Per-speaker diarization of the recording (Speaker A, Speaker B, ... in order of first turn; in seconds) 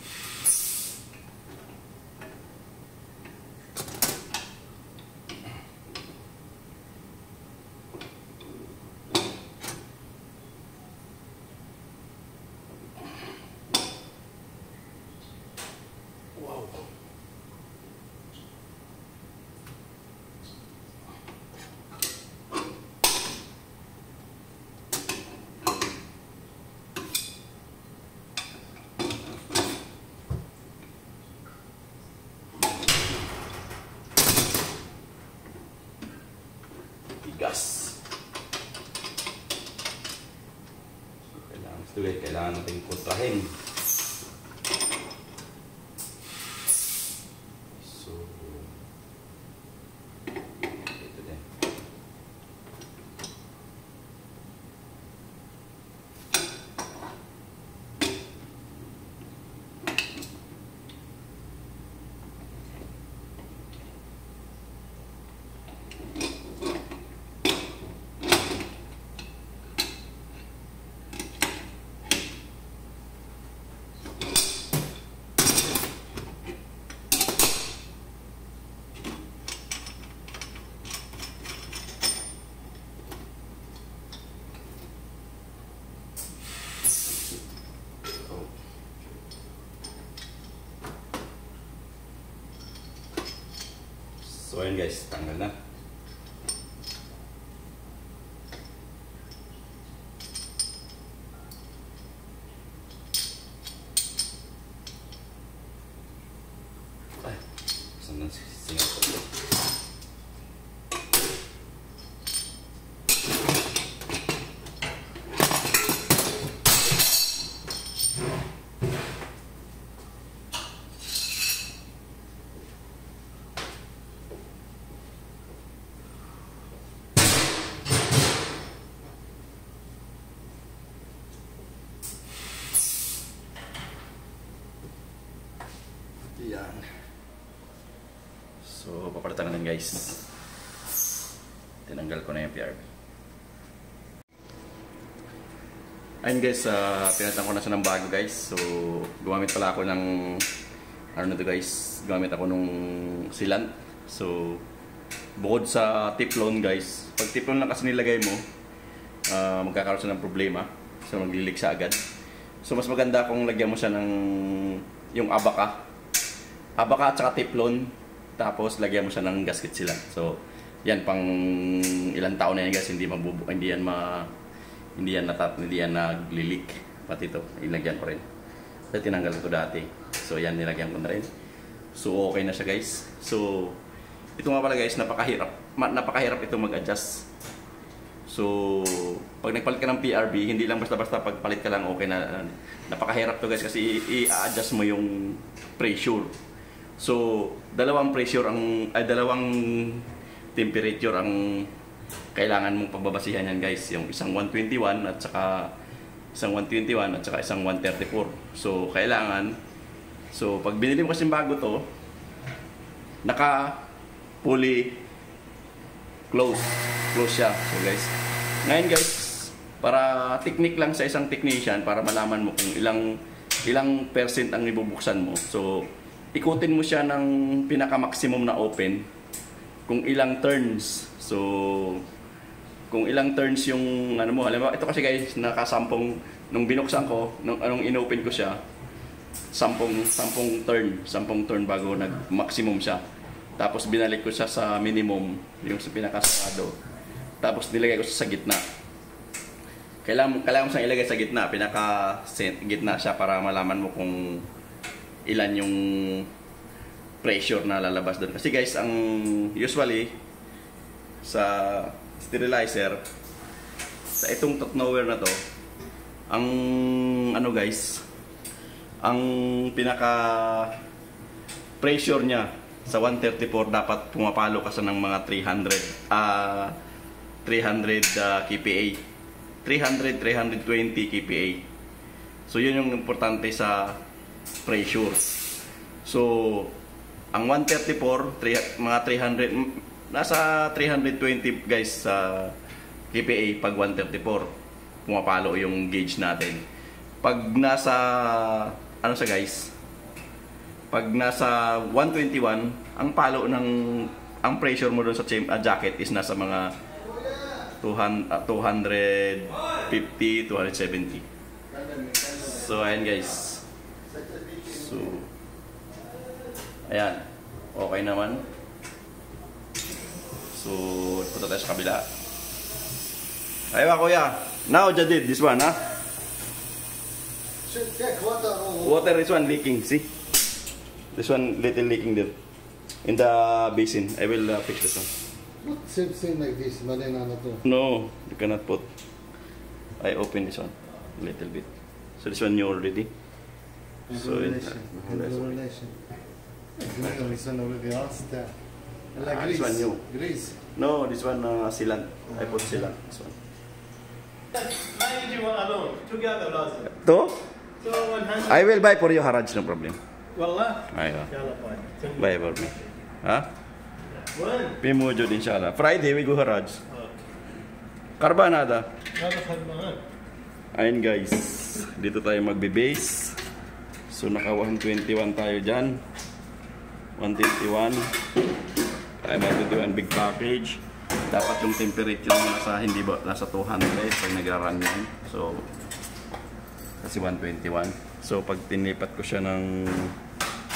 Speaker A: 37.2-38.0, 41.3-43.5, 47.8-48.8, 50.9-51.4, 88.1-88.5, 94.2-95.5, 108.0-109.2, 136.4-136.8, 138.6-140.3, 141.8-142.8, 146.2-150.4, 151.1-154.6, 155.4-158.4, 159.3-162.0, 162.6-165.8, 166.8-174.3, 174.9-178.2, 178.9-181.3, 181.9-183.8, 184.3-187.3, 188.3-196.3, 197.0-201.7, 202.3-205.7, 206.3-209.6, 210.3-211.8, 213.2-213.9, 214.4-215.0, 216.3-229.1, 229.9-232.0, 232.9-238.6, 239.5-243.0, 243.6-246.8, 247.4-248.6, 250.0-254.5, 255.2-256.3, 257.2-260.2, 261.2-263.0, 264.2-265.4, 266.3-268.0, 269.0-270.7, 271.8-276.8, 277.4-279.0, 279.6-281.6, 282.5-284.0, 284.6-285.4, 286.0-286.7, 287.3-292.6, 293.1-294.5, 295.0-296.6, 297.2-299.7, 300.9-306.7, 307.8-311.2, 312.4-313.6, 314.6-315.3, 316.9-318.4, 320.5-322.1, 323.7-325.8, 328.8-330.1, 331.1-332.3, 333.0-335.1, 337.6-338.9, 340.0-341.7, 342.2-343.1, 344.1-345.6, 349.2-350.0, 350.7-353.4, 356.9-357.4, 358.3-360.0, 360.8-361.3, 362.0-363.5, 364.7-366.8, 368.2-368.9, 370.7-373.4, 374.1-376.0, 377.2-378.1, 379.2-385.7, 387.0-390.1
Speaker B: 311.7-312.5, 314.1-314.8, 327.7-329.1, 335.6-337.6, 344.1-345.9, 346.8-348.5, 349.1-350.6
Speaker C: 354.6-356.9, 357.8-358.6, 360.3-362.2, 364.3-364.7, 369.2-370.0